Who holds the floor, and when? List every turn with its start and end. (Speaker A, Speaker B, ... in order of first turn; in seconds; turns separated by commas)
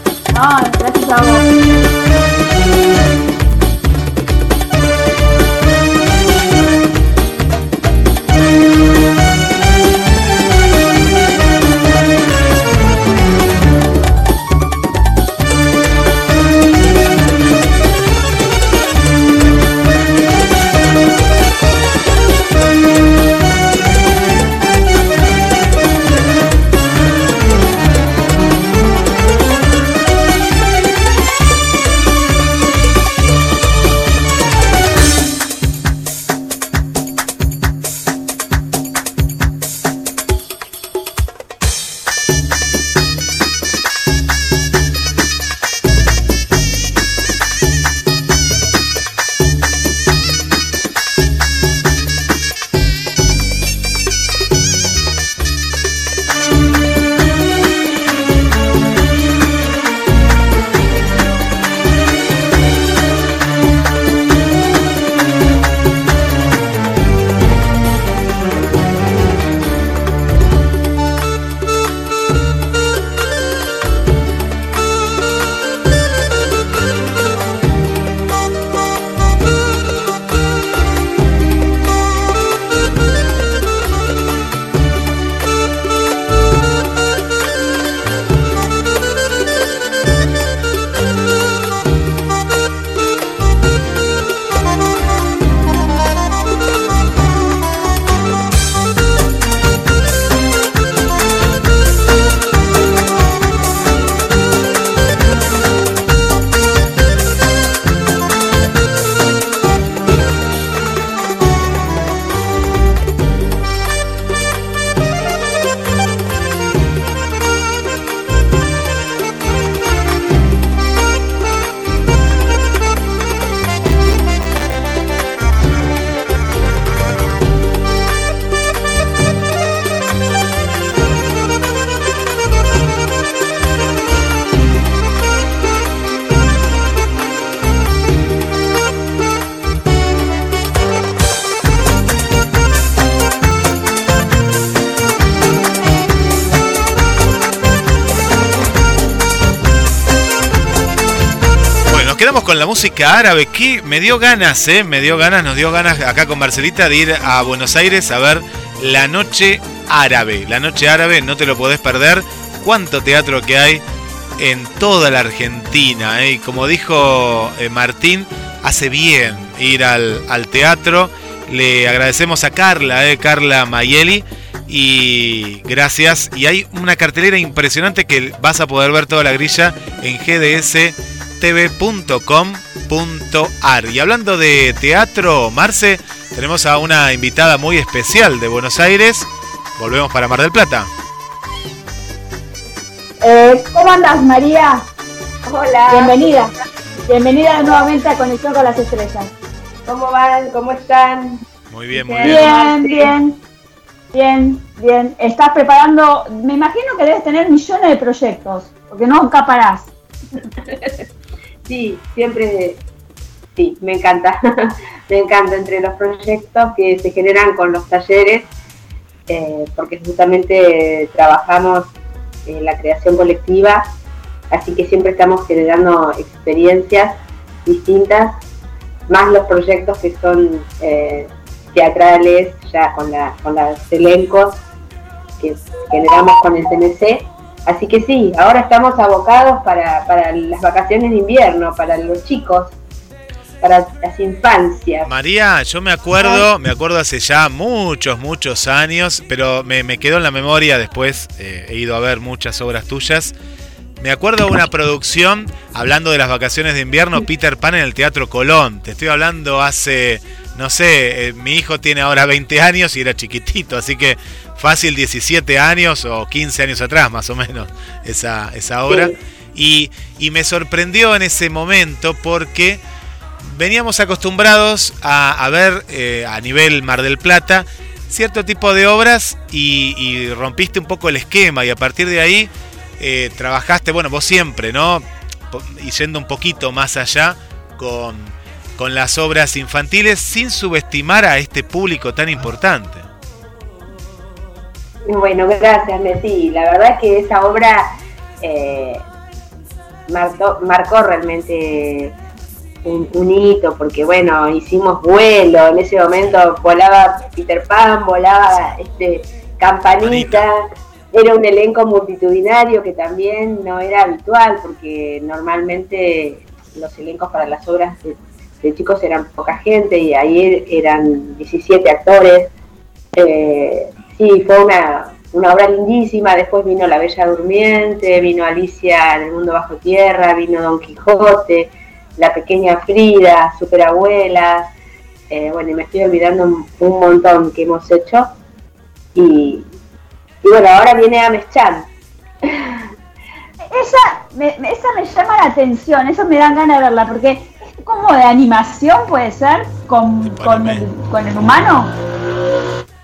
Speaker A: 0.3-1.4, Speaker B: 151.9-163.8, Speaker B: 164.4-190.9, Speaker A: 193.2-194.8, Speaker C: 195.4-196.5, Speaker A: 195.9-196.5, Speaker A: 197.1-199.3, Speaker C: 199.8-203.1, Speaker B: 201.7-202.6, Speaker A: 202.2-203.4, Speaker A: 204.1-209.9, Speaker C: 211.7-212.8, Speaker C: 213.6-218.5, Speaker C: 219.3-221.9, Speaker C: 222.4-223.9, Speaker C: 224.5-228.4, Speaker C: 229.1-234.6, Speaker C: 235.4-242.8, Speaker C: 243.6-245.1, Speaker B: 245.0-253.3, Speaker B: 254.0-272.8, Speaker C: 268.9-269.1, Speaker B: 273.4-293.0, Speaker C: 295.1-297.9, Speaker C: 298.4-299.0, Speaker C: 300.1-302.1, Speaker C: 302.8-310.6, Speaker B: 308.5-308.8, Speaker B: 310.0-310.4, Speaker C: 311.1-322.5, Speaker C: 323.1-334.7, Speaker C: 335.3-338.3, Speaker C: 339.1-339.7, Speaker C: 340.4-341.9, Speaker C: 342.4-342.8, Speaker A: 343.7-351.9, Speaker B: 350.2-350.9